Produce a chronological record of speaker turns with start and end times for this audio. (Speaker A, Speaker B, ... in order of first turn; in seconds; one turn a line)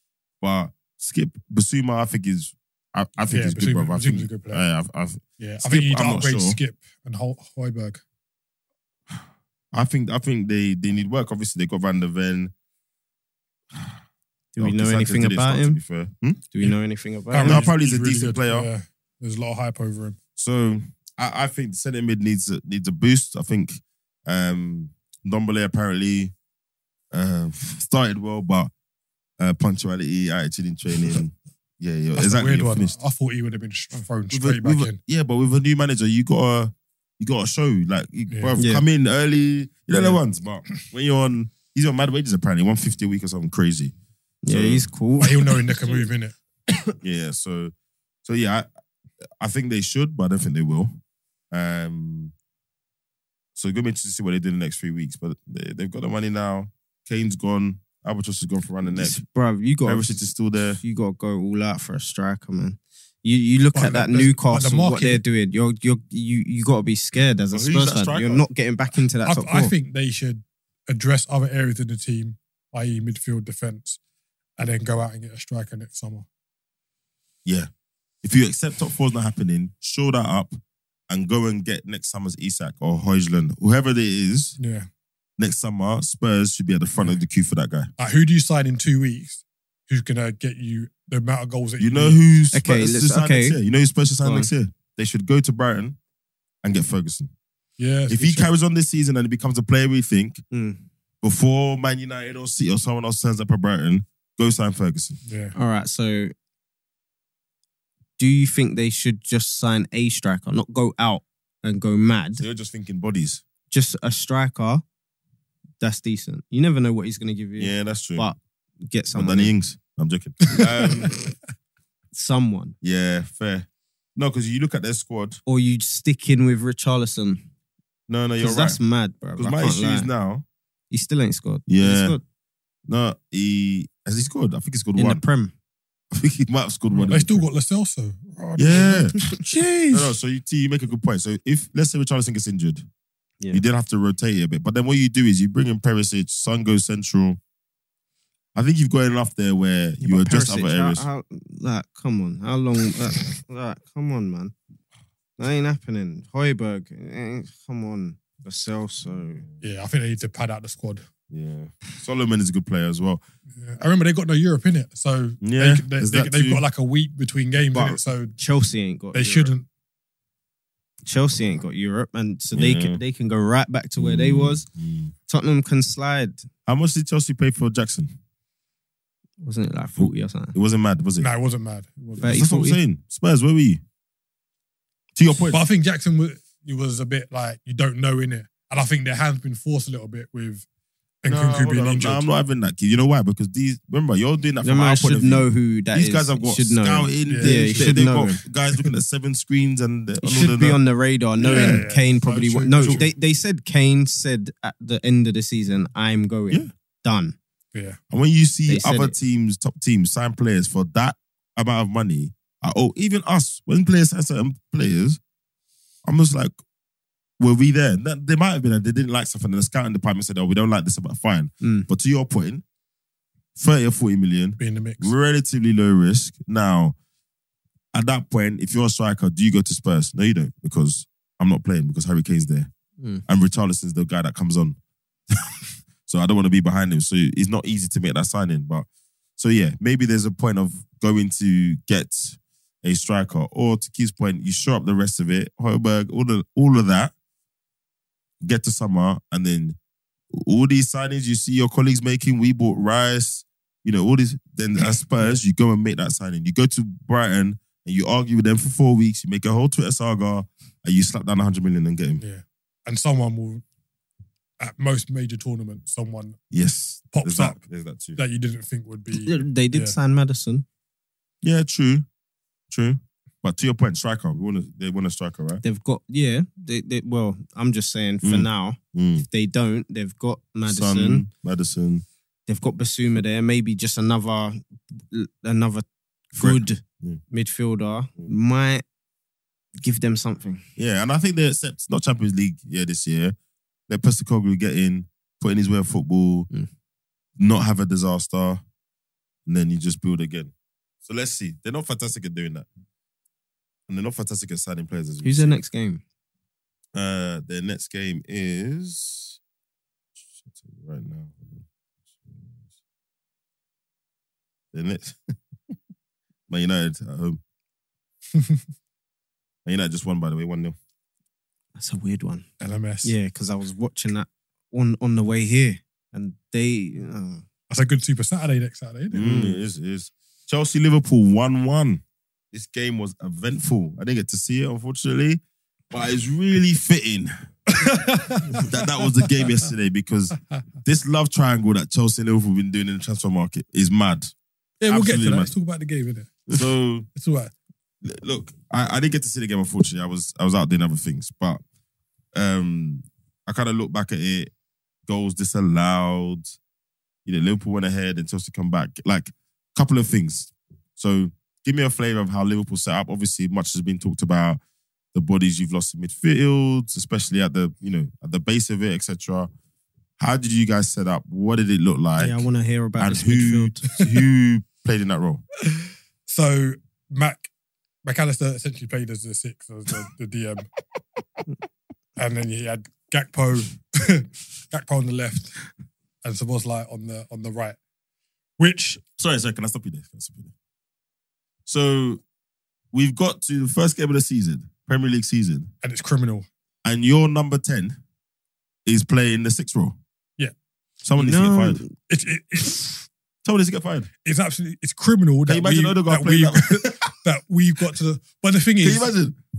Speaker A: 0.4-6.6
Speaker B: 3.3-4.6
Speaker B: 5.4-8.0
Speaker A: 9.7-12.5
Speaker C: 14.6-15.8
Speaker A: 14.6-16.4
Speaker C: 16.5-17.7
Speaker B: 17.3-20.2
Speaker A: 17.4-18.7
Speaker A: 20.4-26.3
Speaker A: 27.1-28.7
Speaker A: 29.4-33.0
Speaker B: 32.2-35.0
Speaker A: 34.3-43.9
Speaker B: 38.3-38.6
Speaker C: 38.6-38.8
Speaker C: 44.4-46.0
Speaker A: 44.5-44.9
Speaker B: 45.2-46.3
Speaker A: 47.0-47.7
Speaker A: 48.2-48.7
Speaker A: 49.4-51.0
Speaker A: 51.5-52.3
Speaker A: 53.5-59.2
Speaker C: 58.9-60.2
Speaker A: 59.9-60.8
Speaker C: 60.8-69.7
Speaker B: 63.7-65.2
Speaker A: 67.5-68.5
Speaker B: 69.3-74.0
Speaker B: 74.6-76.3
Speaker A: 78.2-80.6
Speaker A: 81.1-84.6
Speaker B: 84.6-84.9
Speaker A: 85.4-87.9
Speaker B: 88.0-92.2
Speaker A: 91.8-96.0
Speaker C: 92.5-93.6
Speaker C: 94.2-94.5
Speaker A: 96.6-97.3
Speaker B: 97.8-98.5
Speaker A: 98.1-100.4
Speaker C: 100.5-100.8
Speaker A: 101.2-105.2
Speaker B: 105.3-105.6
Speaker C: 105.5-106.3
Speaker C: 108.2-112.4
Speaker A: 112.4-113.4
Speaker C: 113.7-114.8
Speaker C: 115.8-119.5
Speaker A: 117.6-118.3
Speaker A: 119.2-121.2
Speaker B: 120.5-121.2
Speaker C: 120.6-121.1
Speaker C: 122.1-122.8
Speaker A: 122.8-125.4
Speaker C: 125.5-127.5
Speaker A: 128.1-128.8
Speaker C: 128.4-130.1
Speaker A: 129.4-130.5
Speaker C: 130.9-132.2
Speaker A: 131.7-132.2
Speaker A: 132.9-135.2
Speaker C: 135.0-135.5
Speaker A: 136.1-137.4
Speaker B: 136.9-139.3
Speaker A: 138.6-142.9
Speaker C: 139.2-140.0
Speaker A: 143.5-147.4
Speaker A: 148.6-151.1
Speaker C: 150.0-154.5
Speaker C: 155.4-159.4
Speaker B: 159.6-161.1
Speaker A: 161.3-163.2
Speaker B: 163.6-168.4
Speaker A: 165.4-166.6
Speaker C: 167.7-169.5
Speaker B: 169.1-169.7
Speaker C: 171.1-174.7
Speaker A: 172.6-173.0
Speaker A: 174.0-175.1
Speaker C: 175.3-176.5
Speaker A: 176.7-178.1
Speaker C: 179.4-180.6
Speaker A: 180.0-181.3
Speaker B: 181.2-182.4
Speaker C: 182.2-182.8
Speaker A: 182.2-183.8
Speaker A: 185.2-185.6
Speaker B: 185.5-190.7
Speaker B: 191.2-192.2
Speaker A: 191.2-200.8
Speaker C: 194.6-198.4
Speaker B: 197.3-198.0
Speaker C: 200.2-207.4
Speaker B: 201.4-203.1
Speaker A: 201.4-201.8
Speaker A: 202.8-203.1
Speaker B: 207.7-208.0
Speaker A: 208.1-215.2
Speaker C: 208.7-209.2
Speaker A: 216.1-216.5
Speaker A: 217.4-222.6
Speaker C: 221.6-221.9
Speaker A: 223.6-226.9
Speaker B: 224.6-225.1
Speaker A: 227.9-232.7
Speaker A: 233.3-234.8
Speaker A: 235.3-247.1
Speaker A: 248.4-249.8
Speaker A: 250.3-262.2
Speaker B: 262.2-263.6
Speaker B: 264.6-266.4
Speaker A: 266.5-268.2
Speaker B: 267.1-267.6
Speaker B: 268.2-270.0
Speaker C: 269.1-270.6
Speaker A: 271.4-272.1
Speaker A: 272.7-275.6
Speaker C: 275.6-278.8
Speaker A: 278.2-279.3
Speaker C: 279.3-281.3
Speaker A: 280.7-282.1
Speaker C: 282.5-288.8
Speaker A: 286.4-287.2
Speaker C: 289.8-290.6
Speaker A: 290.8-293.4
Speaker A: 293.9-296.5
Speaker A: 297.4-298.6
Speaker A: 299.5-300.5
Speaker A: 301.0-302.7
Speaker A: 303.9-305.6
Speaker C: 305.2-306.0
Speaker A: 306.9-309.4
Speaker A: 310.4-312.6
Speaker A: 314.7-315.3
Speaker A: 316.5-317.4
Speaker B: 318.3-318.6
Speaker A: 319.7-320.8
Speaker C: 321.8-322.5
Speaker B: 322.6-323.1
Speaker C: 323.0-327.4
Speaker B: 327.7-329.3
Speaker A: 329.1-337.3
Speaker C: 329.2-329.6
Speaker B: 337.7-339.5
Speaker A: 338.5-344.3
Speaker B: 344.8-346.5
Speaker A: 344.9-345.5
Speaker A: 346.5-347.1
Speaker B: 347.1-347.5
Speaker A: 348.0-351.6
Speaker A: 352.4-354.5
Speaker A: 355.1-356.6
Speaker A: 357.3-364.6
Speaker A: 365.1-369.5
Speaker A: 370.2-372.5
Speaker C: 372.2-373.9
Speaker A: 373.0-375.4
Speaker B: 375.7-377.5
Speaker B: 378.0-380.7
Speaker B: 382.2-385.6
Speaker B: 386.2-387.8
Speaker B: 388.6-389.0
Speaker A: 389.2-390.5
Speaker A: 391.7-392.2
Speaker A: 392.9-395.7
Speaker B: 395.8-396.5
Speaker A: 396.9-398.0
Speaker A: 398.9-400.0
Speaker A: 401.0-401.8
Speaker C: 401.2-401.9
Speaker B: 402.1-403.1
Speaker A: 403.4-404.1
Speaker B: 404.2-409.1
Speaker A: 405.5-407.1
Speaker A: 408.8-409.4